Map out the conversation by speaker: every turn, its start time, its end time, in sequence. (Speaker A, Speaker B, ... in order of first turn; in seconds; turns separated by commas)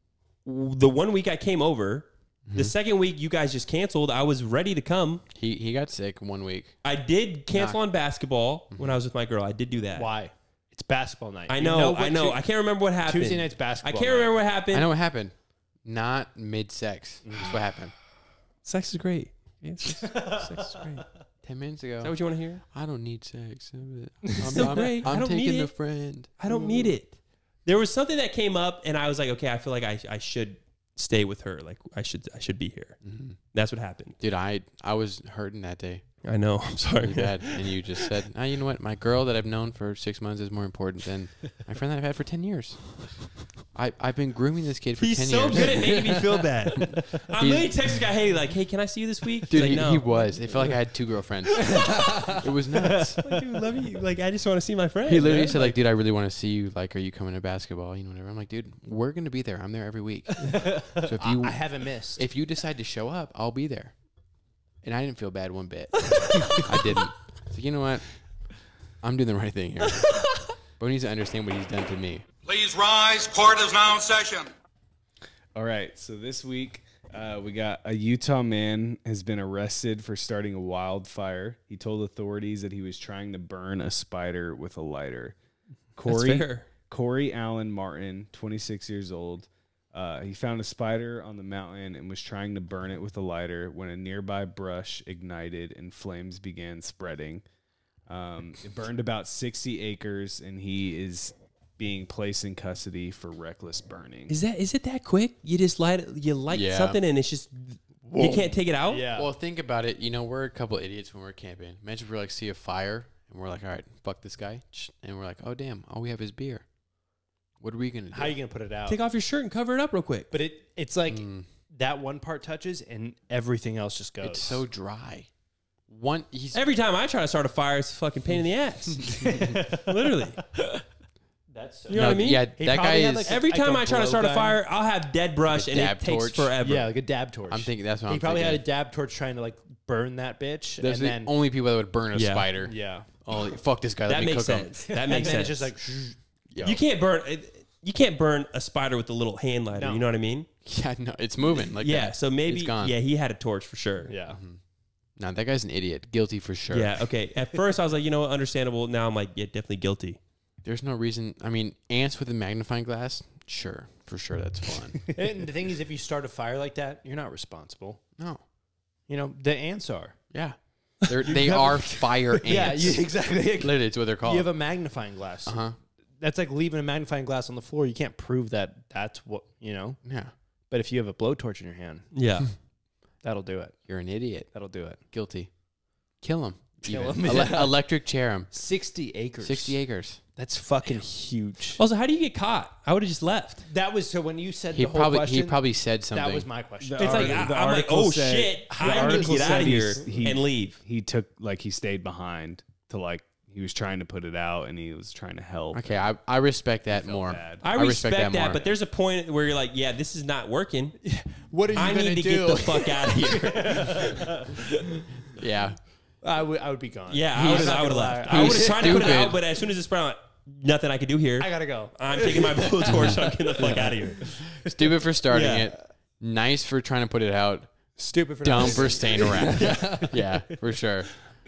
Speaker A: 0.4-5.2, Speaker B: 2.5-2.7, Speaker B: 5.3-6.7, Speaker A: 6.8-10.1, Speaker B: 7.5-7.8, Speaker C: 9.9-12.4, Speaker A: 11.5-14.9, Speaker C: 13.0-14.4, Speaker B: 14.7-17.9, Speaker C: 17.2-17.5, Speaker A: 18.6-21.1, Speaker B: 21.4-26.3, Speaker A: 22.0-22.6, Speaker A: 24.4-34.2, Speaker C: 26.5-26.9, Speaker B: 33.0-33.4, Speaker B: 34.2-36.0, Speaker A: 36.2-38.1, Speaker B: 36.9-47.7, Speaker A: 45.0-50.1, Speaker B: 49.5-53.3, Speaker C: 51.8-52.3, Speaker A: 53.2-55.8, Speaker B: 55.0-61.6, Speaker C: 60.5-62.2, Speaker B: 62.1-63.9, Speaker B: 64.8-68.1, Speaker B: 69.0-72.2, Speaker A: 70.1-70.3, Speaker D: 72.5-74.5, Speaker E: 75.5-85.3, Speaker E: 86.0-97.4, Speaker A: 86.0-86.7, Speaker E: 98.1-104.4, Speaker A: 104.3-109.1, Speaker B: 106.5-107.0, Speaker C: 108.0-109.3, Speaker B: 109.1-116.6, Speaker B: 117.6-118.4, Speaker C: 118.1-119.0, Speaker A: 118.9-120.3, Speaker C: 120.3-124.6, Speaker B: 121.1-121.5, Speaker B: 124.2-125.3, Speaker B: 125.9-126.6, Speaker A: 126.5-130.4, Speaker C: 129.2-130.8, Speaker C: 131.5-134.6, Speaker A: 131.9-132.6, Speaker B: 131.9-133.3, Speaker A: 133.2-136.9, Speaker B: 135.5-136.6, Speaker C: 136.6-141.3, Speaker B: 137.5-138.6, Speaker B: 140.8-145.4, Speaker A: 142.1-142.5, Speaker C: 142.6-143.1, Speaker A: 144.1-145.8, Speaker C: 145.0-146.2, Speaker B: 146.5-146.8, Speaker A: 146.6-150.5, Speaker C: 149.7-150.1, Speaker B: 150.6-152.9, Speaker A: 151.6-154.1, Speaker C: 154.1-154.4, Speaker B: 154.3-154.6, Speaker B: 155.2-157.0, Speaker A: 156.7-160.2, Speaker B: 160.6-165.1, Speaker C: 165.1-168.0, Speaker C: 169.1-170.2, Speaker B: 170.3-174.5, Speaker C: 171.2-175.6, Speaker B: 175.4-175.7, Speaker C: 176.2-180.0, Speaker B: 180.0-180.3, Speaker C: 180.7-182.1, Speaker A: 182.1-182.5, Speaker C: 183.2-183.8, Speaker B: 183.9-184.5, Speaker C: 184.5-185.0, Speaker B: 185.1-185.5, Speaker B: 186.2-188.6, Speaker C: 186.8-187.8, Speaker C: 188.5-189.8, Speaker B: 189.4-190.2, Speaker C: 190.3-191.8, Speaker A: 191.8-193.6, Speaker C: 193.7-197.6, Speaker B: 194.7-196.5, Speaker E: 196.8-206.1, Speaker A: 197.0-200.8, Speaker C: 198.7-200.2, Speaker B: 205.7-208.8, Speaker E: 206.9-207.6, Speaker A: 207.6-211.0, Speaker C: 211.0-215.0, Speaker A: 211.7-214.4, Speaker B: 215.3-215.8, Speaker C: 216.2-219.2, Speaker A: 217.1-224.3, Speaker B: 217.3-219.4, Speaker C: 221.4-224.7, Speaker B: 224.6-227.7, Speaker A: 225.3-225.7, Speaker C: 228.0-230.6, Speaker B: 228.4-231.1